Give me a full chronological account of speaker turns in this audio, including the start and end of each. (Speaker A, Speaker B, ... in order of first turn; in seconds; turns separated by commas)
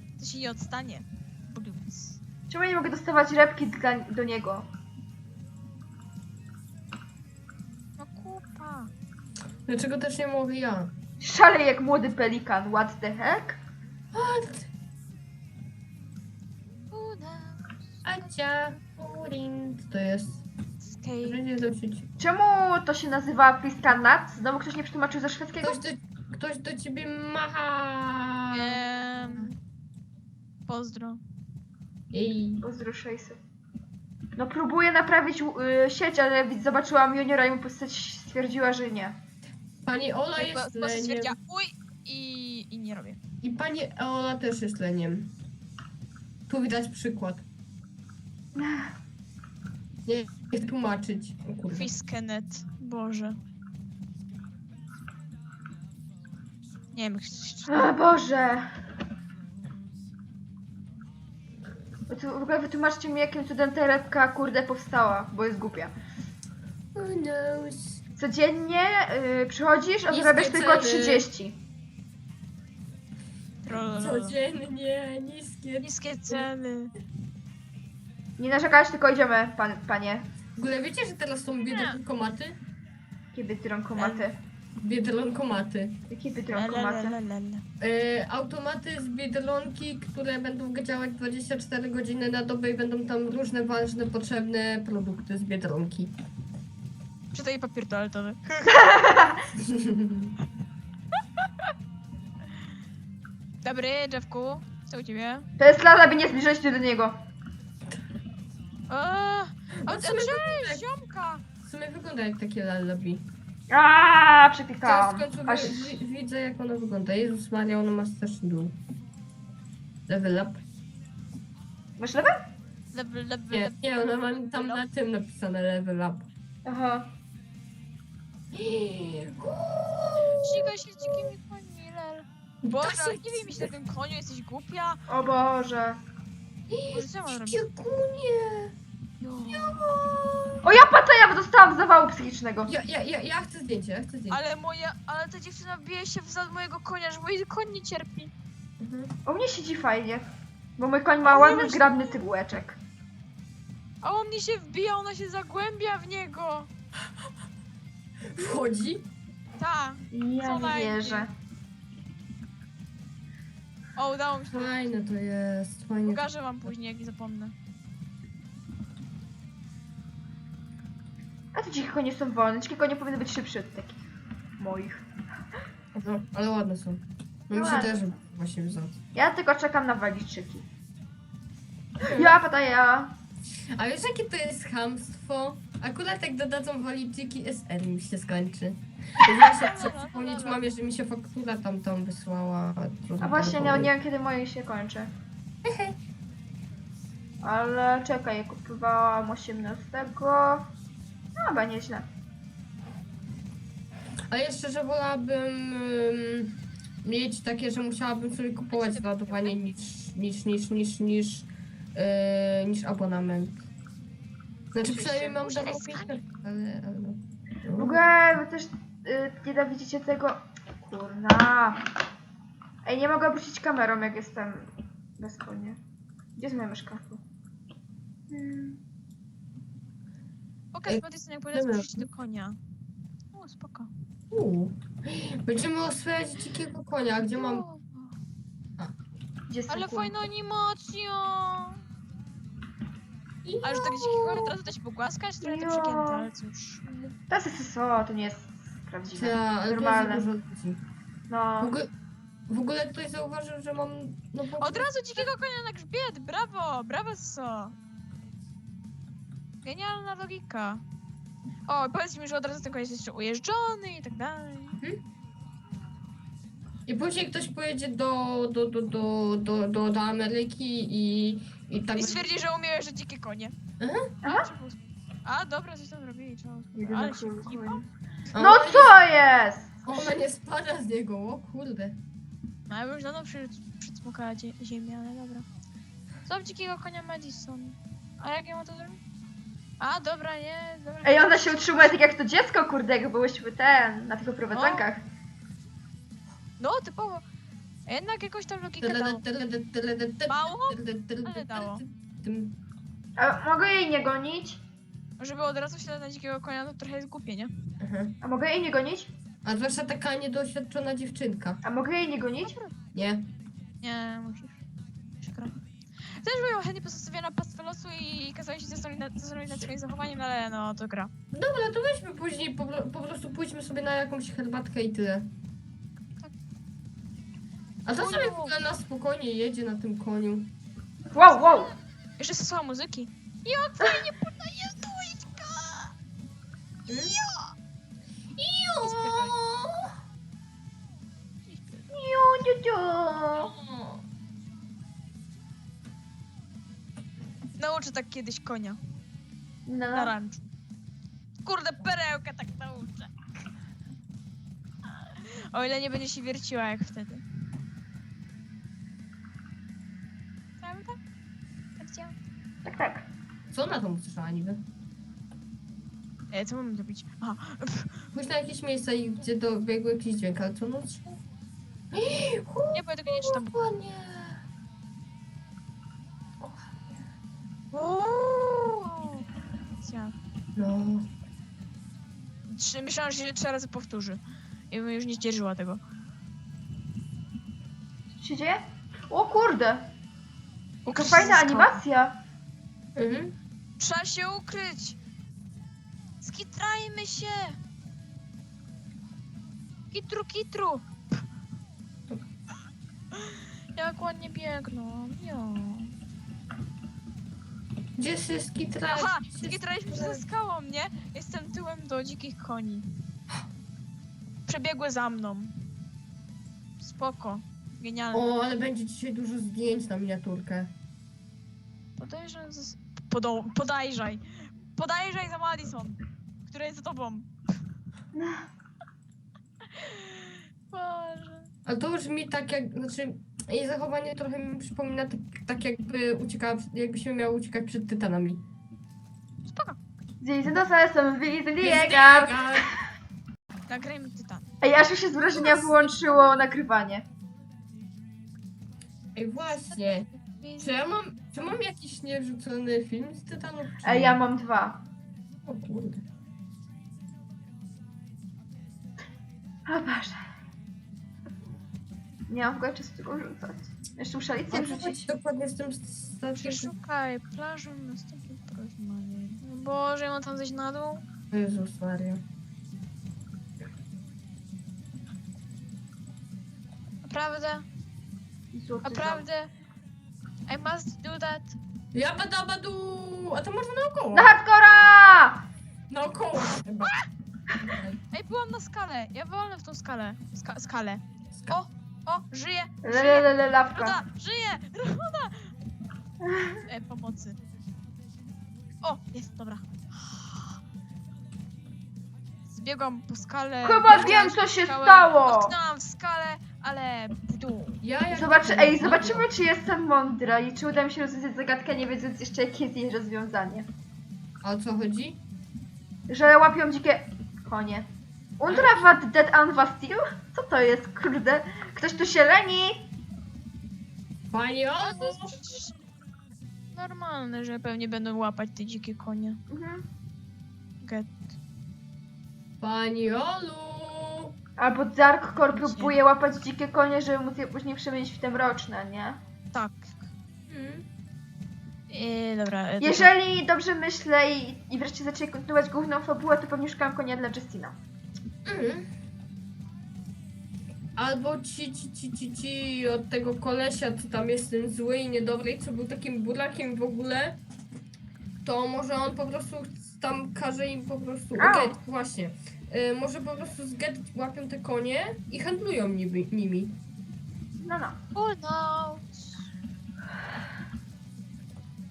Speaker A: 0.2-2.2, Speaker B: 2.5-4.7, Speaker A: 8.0-8.9, Speaker C: 9.7-10.9, Speaker B: 11.2-13.6, Speaker C: 14.1-14.7, Speaker A: 16.9-18.0, Speaker C: 18.1-20.4, Speaker A: 20.8-21.4, Speaker C: 21.2-22.1, Speaker B: 22.2-25.8, Speaker C: 25.6-29.5, Speaker A: 28.5-29.5, Speaker A: 30.7-31.2, Speaker C: 32.1-32.6, Speaker B: 32.6-33.4, Speaker B: 34.4-39.2, Speaker C: 39.8-41.4, Speaker A: 40.4-43.2, Speaker C: 43.4-45.3, Speaker C: 46.5-47.5, Speaker B: 48.6-48.9, Speaker C: 50.1-51.9, Speaker A: 51.7-53.4, Speaker A: 56.9-57.8, Speaker B: 57.7-58.7, Speaker B: 62.1-65.9, Speaker C: 67.0-68.0, Speaker B: 68.2-71.6, Speaker C: 70.1-71.3, Speaker A: 73.6-74.4, Speaker C: 73.7-76.5, Speaker A: 75.8-76.9, Speaker B: 78.4-80.3, Speaker C: 80.6-82.6, Speaker A: 81.7-82.0, Speaker B: 83.3-84.4, Speaker A: 84.0-84.3, Speaker C: 84.8-86.0, Speaker B: 86.1-87.2, Speaker A: 86.5-87.7, Speaker C: 87.8-96.2, Speaker A: 97.3-98.9, Speaker B: 98.7-99.5, Speaker C: 99.6-100.3, Speaker A: 103.6-105.5, Speaker B: 105.6-107.2, Speaker A: 108.9-111.4, Speaker C: 109.8-110.8, Speaker C: 111.6-113.3, Speaker B: 113.7-116.0, Speaker C: 114.8-118.8, Speaker C: 120.1-120.6, Speaker B: 122.0-122.4, Speaker A: 122.9-124.8, Speaker C: 123.5-126.3, Speaker B: 126.7-127.1, Speaker C: 128.5-131.2, Speaker A: 130.3-135.0, Speaker C: 132.7-133.7, Speaker B: 135.1-136.0, Speaker C: 136.7-138.8, Speaker A: 136.9-137.6, Speaker A: 139.2-139.8, Speaker C: 139.5-140.7, Speaker B: 140.6-142.7, Speaker C: 142.7-144.4, Speaker A: 144.3-148.3, Speaker C: 148.8-149.1, Speaker B: 149.3-150.3, Speaker B: 150.8-152.8, Speaker A: 151.2-152.2, Speaker A: 154.0-156.7, Speaker C: 158.3-159.1, Speaker A: 159.6-161.3, Speaker B: 160.1-161.3, Speaker A: 164.0-164.8, Speaker C: 164.5-166.7, Speaker A: 166.1-167.5, Speaker B: 171.5-174.0, Speaker B: 174.6-175.0, Speaker C: 175.9-179.0, Speaker B: 177.5-178.2, Speaker B: 179.1-180.7, Speaker B: 182.0-183.2, Speaker C: 182.1-182.3, Speaker C: 183.7-193.9, Speaker A: 189.4-190.6, Speaker B: 193.2-195.1, Speaker C: 195.6-196.0, Speaker B: 197.4-200.7, Speaker B: 201.4-202.1, Speaker C: 204.3-213.7, Speaker A: 208.7-209.6, Speaker C: 214.7-218.0, Speaker A: 214.8-216.2, Speaker B: 217.8-221.8, Speaker B: 222.8-225.8, Speaker B: 226.4-227.2, Speaker B: 228.3-228.8, Speaker A: 230.7-232.6, Speaker C: 230.9-232.1, Speaker A: 233.3-233.9, Speaker C: 234.3-237.7, Speaker A: 237.3-238.2, Speaker B: 239.5-240.1, Speaker A: 239.7-241.8, Speaker C: 243.4-244.6, Speaker A: 243.6-247.2, Speaker B: 245.4-246.3, Speaker B: 247.3-250.2, Speaker C: 249.1-250.8, Speaker B: 251.3-251.8, Speaker C: 251.6-251.9, Speaker C: 252.5-255.3, Speaker A: 254.6-257.8, Speaker A: 259.6-260.8, Speaker A: 261.7-264.8, Speaker C: 266.9-272.2, Speaker A: 271.9-273.6, Speaker C: 273.8-274.1, Speaker B: 274.2-274.5, Speaker A: 274.2-277.8, Speaker B: 276.8-277.8, Speaker C: 278.3-279.0, Speaker B: 278.4-279.9, Speaker C: 279.9-282.0, Speaker A: 282.7-285.5, Speaker A: 286.2-289.0, Speaker A: 289.8-291.9, Speaker B: 291.1-295.0, Speaker A: 294.5-294.9, Speaker A: 296.6-297.2, Speaker A: 297.9-299.2, Speaker C: 298.8-302.6, Speaker A: 300.3-301.8, Speaker B: 303.2-304.6, Speaker A: 305.2-307.5, Speaker C: 307.8-308.2, Speaker B: 308.2-309.1, Speaker C: 309.4-311.6, Speaker B: 311.6-312.6, Speaker A: 312.4-312.7, Speaker C: 312.9-313.3, Speaker A: 313.8-314.6, Speaker A: 315.2-321.1, Speaker C: 321.3-325.3, Speaker C: 327.9-330.5, Speaker A: 328.0-328.6, Speaker B: 331.1-331.7, Speaker A: 331.3-335.9, Speaker C: 336.9-337.1, Speaker A: 336.9-337.5, Speaker C: 338.4-339.9, Speaker A: 338.8-339.4, Speaker A: 341.5-341.9, Speaker B: 341.9-343.5, Speaker C: 343.4-344.0, Speaker A: 347.6-348.8, Speaker B: 349.7-350.1, Speaker A: 349.9-350.5, Speaker A: 351.4-353.1, Speaker A: 354.9-357.2, Speaker A: 360.6-361.0, Speaker A: 361.8-362.1, Speaker B: 362.6-363.1, Speaker C: 363.5-364.6, Speaker A: 366.3-368.1, Speaker C: 368.1-371.2, Speaker C: 371.9-374.4, Speaker A: 372.7-373.5, Speaker C: 376.4-376.8, Speaker A: 377.7-379.3, Speaker A: 379.8-380.1, Speaker C: 380.6-381.1, Speaker A: 382.5-385.8, Speaker B: 388.2-389.9, Speaker A: 390.9-391.8, Speaker B: 390.9-392.2, Speaker C: 393.0-393.4, Speaker A: 393.8-395.0, Speaker A: 396.2-397.6, Speaker A: 399.9-400.9, Speaker A: 403.1-405.9, Speaker C: 408.0-410.2, Speaker A: 408.9-412.9, Speaker A: 414.5-415.6, Speaker A: 416.8-418.2, Speaker C: 418.1-420.7, Speaker A: 422.0-424.2, Speaker A: 424.8-427.3, Speaker B: 428.1-428.4, Speaker A: 429.7-431.5, Speaker C: 431.7-438.4, Speaker A: 439.5-439.8, Speaker B: 440.2-442.7, Speaker C: 441.6-442.7, Speaker A: 443.7-444.5, Speaker B: 444.6-447.1, Speaker A: 445.4-445.9, Speaker C: 449.1-450.1, Speaker A: 449.5-450.8, Speaker C: 450.6-454.2, Speaker B: 453.8-454.8, Speaker C: 455.4-456.0, Speaker B: 459.7-460.2, Speaker B: 462.3-465.1, Speaker C: 464.5-466.7, Speaker A: 466.4-471.1, Speaker C: 471.3-472.2, Speaker A: 477.0-477.7, Speaker B: 478.5-479.2, Speaker A: 478.8-479.5, Speaker A: 480.5-481.6, Speaker C: 481.9-484.3, Speaker B: 484.1-485.4, Speaker C: 485.9-487.0, Speaker C: 487.6-488.0, Speaker A: 488.1-495.5, Speaker C: 491.4-491.6, Speaker B: 492.8-494.0, Speaker B: 496.2-496.6, Speaker A: 496.7-497.4, Speaker A: 498.8-500.6, Speaker A: 502.5-507.8, Speaker B: 503.6-505.5, Speaker C: 503.9-504.2, Speaker C: 507.8-509.3, Speaker B: 508.1-513.7, Speaker C: 514.4-515.2, Speaker B: 516.1-517.9, Speaker B: 518.4-522.9, Speaker C: 518.5-518.9, Speaker C: 524.3-525.4, Speaker A: 524.8-525.8, Speaker A: 526.7-529.4, Speaker B: 529.5-529.9, Speaker A: 530.8-531.4, Speaker C: 532.6-534.3, Speaker B: 534.6-539.2, Speaker A: 535.5-536.0, Speaker A: 539.5-540.1, Speaker C: 540.5-540.9, Speaker A: 541.9-543.1, Speaker B: 542.8-547.8, Speaker C: 548.5-548.9, Speaker C: 551.0-557.4, Speaker C: 558.4-566.8, Speaker B: 561.4-561.8, Speaker B: 567.6-568.0, Speaker A: 568.1-569.5